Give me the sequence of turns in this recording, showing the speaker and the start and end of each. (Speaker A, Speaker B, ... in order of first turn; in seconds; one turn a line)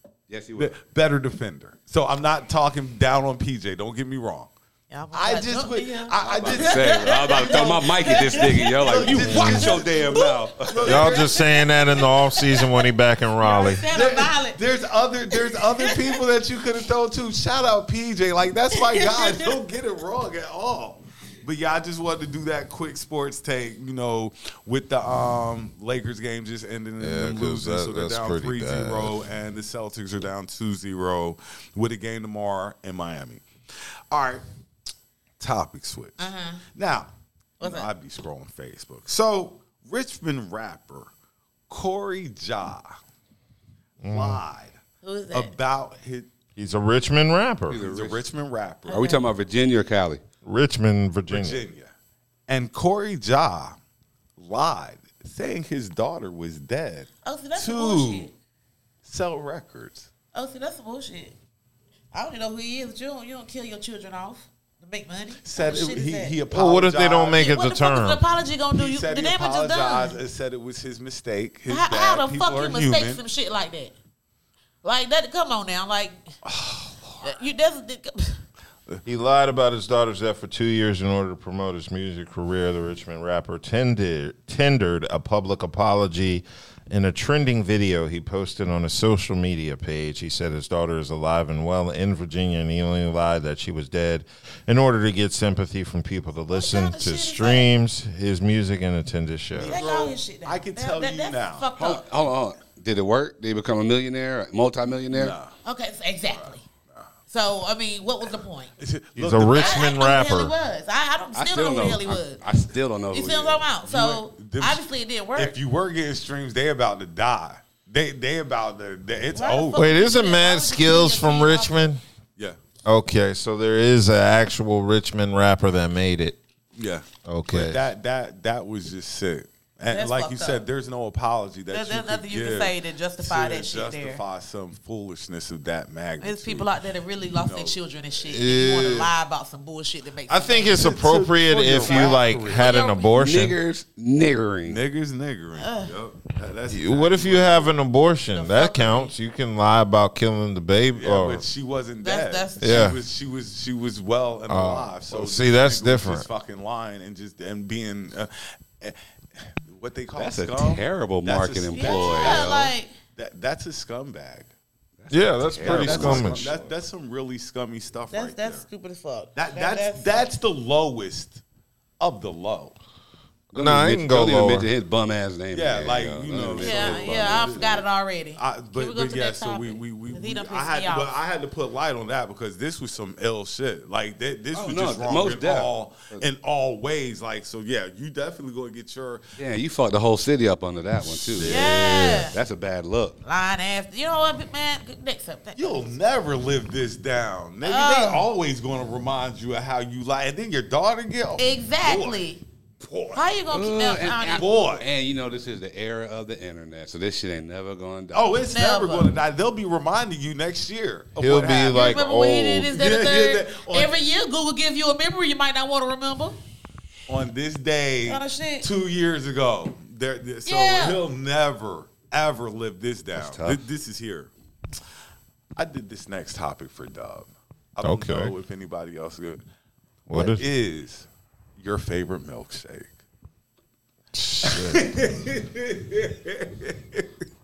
Speaker A: 0.3-0.8
Speaker B: 0.6-4.5
Speaker C: 4.9-10.5
Speaker B: 5.1-11.4
Speaker A: 6.2-11.1
Speaker D: 9.3-9.7
Speaker D: 10.8-13.9
Speaker C: 11.0-16.2
Speaker B: 13.9-33.4
Speaker C: 18.7-19.6
Speaker D: 27.0-29.2
Speaker B: 34.1-34.4
Speaker B: 35.4-41.1
Speaker C: 36.2-36.6
Speaker C: 37.6-37.9
Speaker B: 41.7-43.0
Speaker D: 44.0-44.4
Speaker B: 44.0-44.8
Speaker C: 45.0-45.5
Speaker B: 45.3-46.3
Speaker D: 46.6-47.8
Speaker A: 47.7-48.2
Speaker B: 47.8-49.1
Speaker C: 48.9-49.3
Speaker A: 48.9-50.2
Speaker D: 50.4-51.6
Speaker B: 51.3-51.9
Speaker B: 52.5-53.8
Speaker B: 54.4-58.3
Speaker C: 57.2-58.3
Speaker B: 59.0-60.1
Speaker C: 60.3-61.4
Speaker C: 62.1-66.4
Speaker B: 65.4-67.5
Speaker D: 66.5-68.2
Speaker C: 67.3-70.2
Speaker B: 68.7-73.2
Speaker C: 71.7-73.9
Speaker C: 74.8-76.3
Speaker B: 76.4-77.3
Speaker C: 77.2-78.4
Speaker D: 79.1-99.8
Speaker C: 96.5-97.7
Speaker B: 99.5-101.7
Speaker C: 99.6-102.1
Speaker A: 101.8-105.4
Speaker B: 105.1-105.5
Speaker C: 105.7-106.6
Speaker B: 106.4-107.1
Speaker C: 107.3-108.7
Speaker B: 108.8-110.0
Speaker D: 109.2-110.5
Speaker C: 109.5-112.4
Speaker A: 111.3-113.7
Speaker C: 113.1-115.6
Speaker B: 113.8-114.8
Speaker B: 115.4-119.8
Speaker C: 119.3-121.9
Speaker D: 119.7-122.0
Speaker D: 122.9-126.4
Speaker B: 126.8-136.7
Speaker D: 127.3-127.8
Speaker C: 129.9-130.7
Speaker C: 131.7-134.2
Speaker C: 136.2-140.9
Speaker B: 137.3-137.8
Speaker D: 138.3-139.1
Speaker D: 140.3-143.6
Speaker B: 140.7-142.7
Speaker C: 141.7-143.1
Speaker A: 143.1-144.8
Speaker B: 144.7-147.7
Speaker C: 145.6-145.9
Speaker D: 146.7-151.4
Speaker C: 148.3-149.1
Speaker B: 150.9-164.5
Speaker C: 152.0-152.9
Speaker D: 152.6-153.0
Speaker D: 154.5-156.3
Speaker A: 160.2-162.6
Speaker C: 161.7-162.9
Speaker A: 165.0-166.7
Speaker D: 165.1-166.5
Speaker B: 165.6-168.7
Speaker C: 168.1-170.2
Speaker B: 169.3-171.4
Speaker B: 172.0-172.8
Speaker A: 173.5-177.7
Speaker D: 173.5-174.7
Speaker B: 175.5-189.2
Speaker C: 176.6-181.2
Speaker A: 184.5-186.2
Speaker A: 189.4-193.2
Speaker B: 191.3-191.7
Speaker C: 191.4-192.4
Speaker C: 193.2-195.8
Speaker B: 195.6-202.2
Speaker C: 197.6-198.3
Speaker C: 201.4-202.4
Speaker B: 202.8-203.2
Speaker C: 203.1-204.6
Speaker A: 203.5-208.4
Speaker B: 204.3-204.9
Speaker B: 208.1-212.0
Speaker C: 208.5-209.1
Speaker D: 211.2-212.7
Speaker C: 211.6-216.4
Speaker B: 212.7-213.9
Speaker B: 217.1-224.3
Speaker C: 218.1-218.7
Speaker C: 220.5-221.0
Speaker A: 223.2-223.6
Speaker B: 225.6-229.4
Speaker D: 227.8-228.3
Speaker D: 230.1-230.4
Speaker B: 230.1-233.0
Speaker D: 234.1-234.9
Speaker B: 234.4-237.1